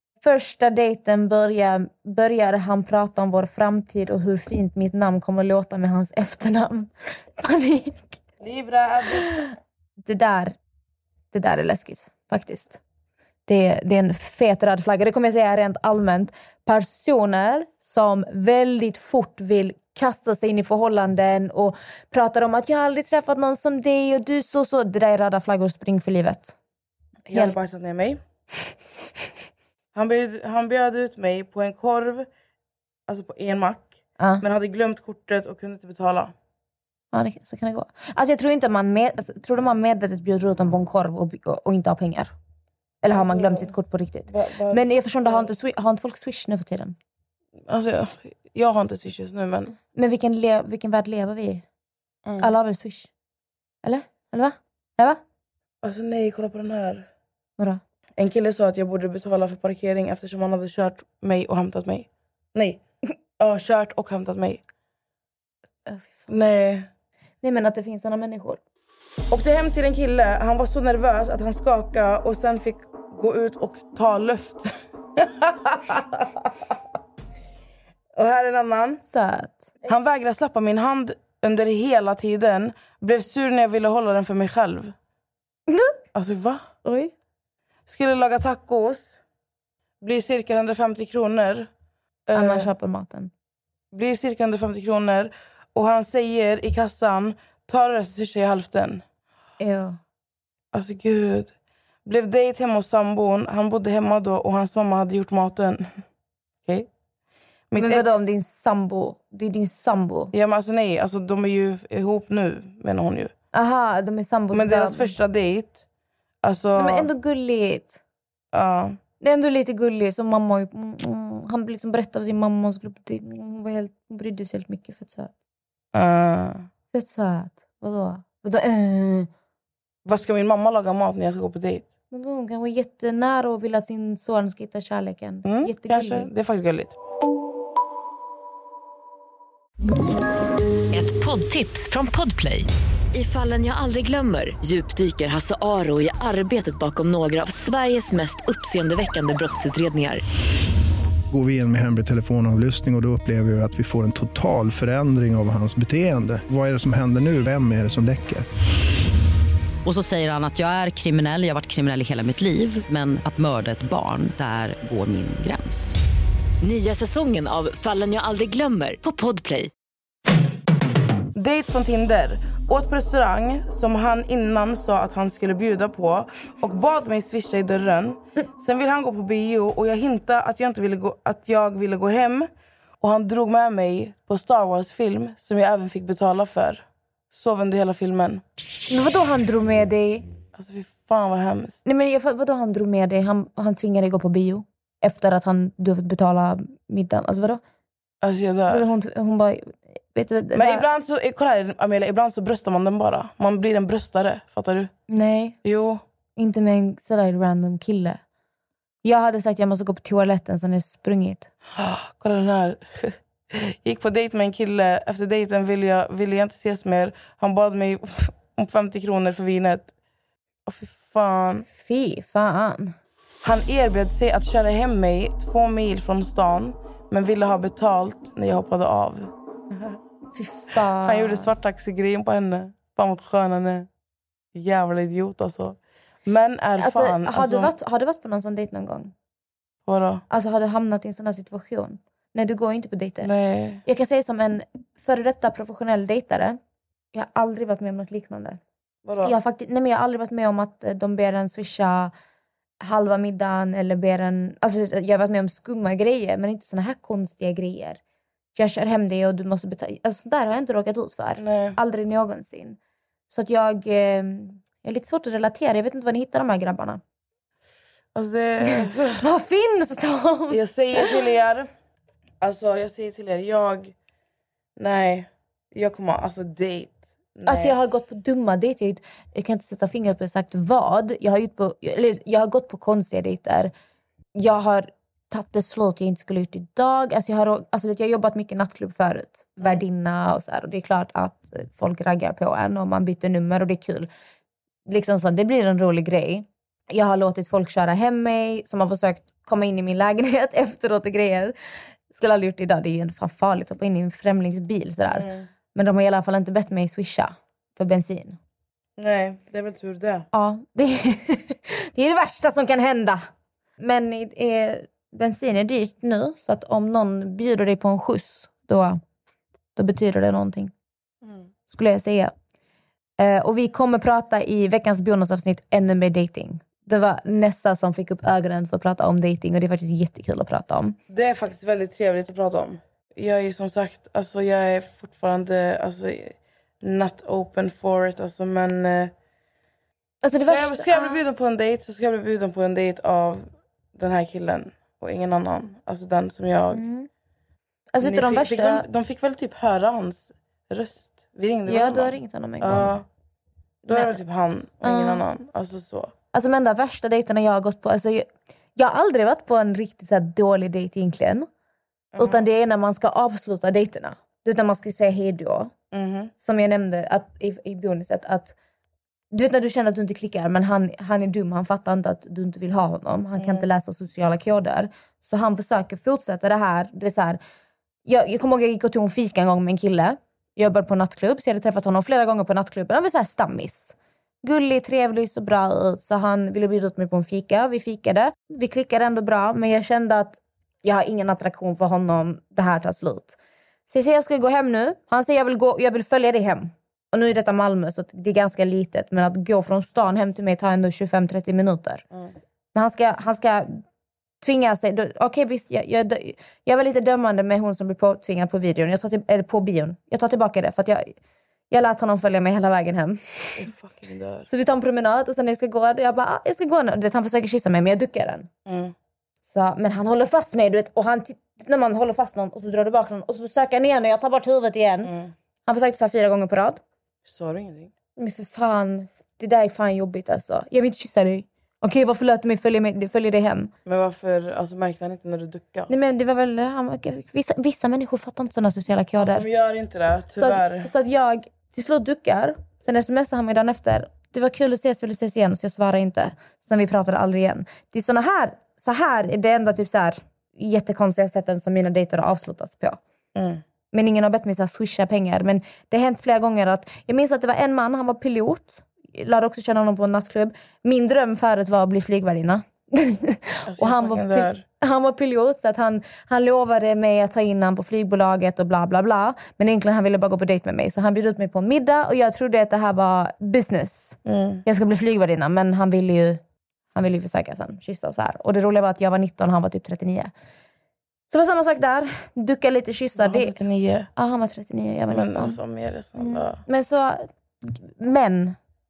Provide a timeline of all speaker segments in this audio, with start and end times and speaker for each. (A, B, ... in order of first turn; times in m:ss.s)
0:00.2-0:08.1 A
0:08.4-0:09.3 B
0:09.2-0:09.5 A
0:10.0-0:10.6 A
0:11.3-0:12.8 A
0:13.5-0:26.5 A
0:27.3-0:27.5 A
0:27.3-0:28.2 B
0:29.9-0:32.3 B
0:33.1-0:36.3 B
0:37.1-0:42.3 A
0:43.0-0:47.0 A
0:43.1-0:43.7 B
0:44.3-0:45.5 B
0:47.7-0:49.7 B
0:49.9-0:51.6 A
0:52.2-0:52.5 B
0:52.4-0:53.1 A
0:53.8-0:55.2 A
0:55.8-0:57.1 B
0:58.2-1:02.8 B
1:03.4-1:04.6 B
1:05.8-1:06.3 A
1:06.3-1:06.9 B
1:07.4-1:08.6 A
1:09.3-1:16.8 B
1:18.1-1:19.0 B
1:19.0-1:19.7 A
1:19.9-1:24.9 B
1:25.7-1:26.0 A
1:26.1-1:26.6 B
1:26.8-1:27.1 A
1:27.8-1:29.2 B
1:30.0-1:31.7 B
1:32.3-1:32.7 B
1:32.3-1:33.3 A
1:33.9-1:39.0 B
1:39.6-1:40.0 A
1:40.7-1:41.5 B
1:42.0-1:46.0 B
1:47.7-1:48.2 B
1:47.8-1:50.3 A
1:50.3-1:53.3 B
1:53.5-1:55.1 A
1:54.5-1:55.8 B
1:56.4-1:57.1 B
1:56.8-1:58.0 A
1:58.5-1:59.0 B
1:59.2-2:05.3 A
2:05.9-2:06.7 B
2:06.9-2:09.3 A
2:10.0-2:11.9 B
2:12.1-2:16.3 A
2:15.4-2:17.0 B
2:20.9-2:30.2 C
2:31.3-2:38.4 D
2:39.8-2:45.9 E
2:46.6-2:49.7 C
2:51.4-3:08.4 B
3:08.9-3:10.2 A
3:10.5-3:11.8 B
3:11.8-3:17.6 A
3:18.2-3:18.8 B
3:18.7-3:20.8 A
3:20.5-3:24.9 B
3:25.1-3:25.6 A
3:25.6-3:26.0 B
3:26.4-3:28.2 A
3:29.0-3:31.5 A
3:31.7-3:39.9 B
3:40.6-3:41.6 B
3:41.6-3:42.9 A
3:43.4-3:50.0 B
3:50.3-3:51.5 A
3:51.0-3:53.9 B
3:54.5-3:57.7 B
3:56.8-3:59.1 A
3:59.8-4:00.2 B
4:00.3-4:03.3 A
4:03.2-4:03.8 B
4:03.8-4:06.6 A
4:07.1-4:08.6 A
4:09.0-4:09.3 B
4:09.2-4:12.1 A
4:12.8-4:18.0 A
4:18.5-4:22.8 A
4:21.4-4:21.8 B
4:23.3-4:27.0 A
4:28.1-4:29.2 B
4:28.7-4:31.0 A
4:30.5-4:31.7 B
4:32.4-4:33.9 B
4:34.8-4:37.8 B
4:37.4-4:43.7 A
4:44.3-4:54.1 A
4:54.9-5:01.5 A
5:02.1-5:08.4 A
5:05.1-5:05.5 B
5:09.0-5:10.3 B
5:10.3-5:13.2 A
5:13.8-5:19.0 A
5:19.8-5:20.7 A
5:21.7-5:22.3 A
5:23.2-5:31.0 A
5:31.1-5:39.1 B
5:40.2-5:41.2 A
5:40.4-5:46.8 B
5:46.7-5:47.1 A
5:47.9-5:48.8 A
5:48.0-5:53.0 B
5:51.6-5:52.9 A
5:53.8-5:56.1 B
5:53.9-5:54.2 A
5:54.8-5:55.2 A
5:56.3-6:01.5 A
6:02.1-6:02.4 B
6:02.2-6:05.7 A
6:05.9-6:06.3 B
6:06.4-6:08.5 A
6:09.3-6:17.4 A
6:13.4-6:13.6 B
6:18.0-6:33.4 A
6:33.9-6:42.0 A
6:42.7-6:43.8 A
6:44.4-6:51.1 A
6:51.7-6:53.7 A
6:53.6-6:54.5 B
6:54.5-6:58.5 A
6:58.6-6:58.9 B
6:59.4-7:05.1 A
7:05.0-7:05.3 B
7:05.6-7:06.8 A
7:07.2-7:07.9 B
7:08.2-7:13.7 A
7:13.8-7:15.9 B
7:15.9-7:19.5 A
7:19.2-7:20.9 B
7:20.4-7:33.0 A
7:33.3-7:33.6 B
7:33.9-7:56.4 A
7:43.7-7:44.6 B
7:54.2-7:54.6 B
7:56.9-8:00.3 A
8:01.3-8:03.5 A
8:03.2-8:04.1 B
8:04.2-8:05.6 A
8:05.1-8:06.6 B
8:06.2-8:08.6 A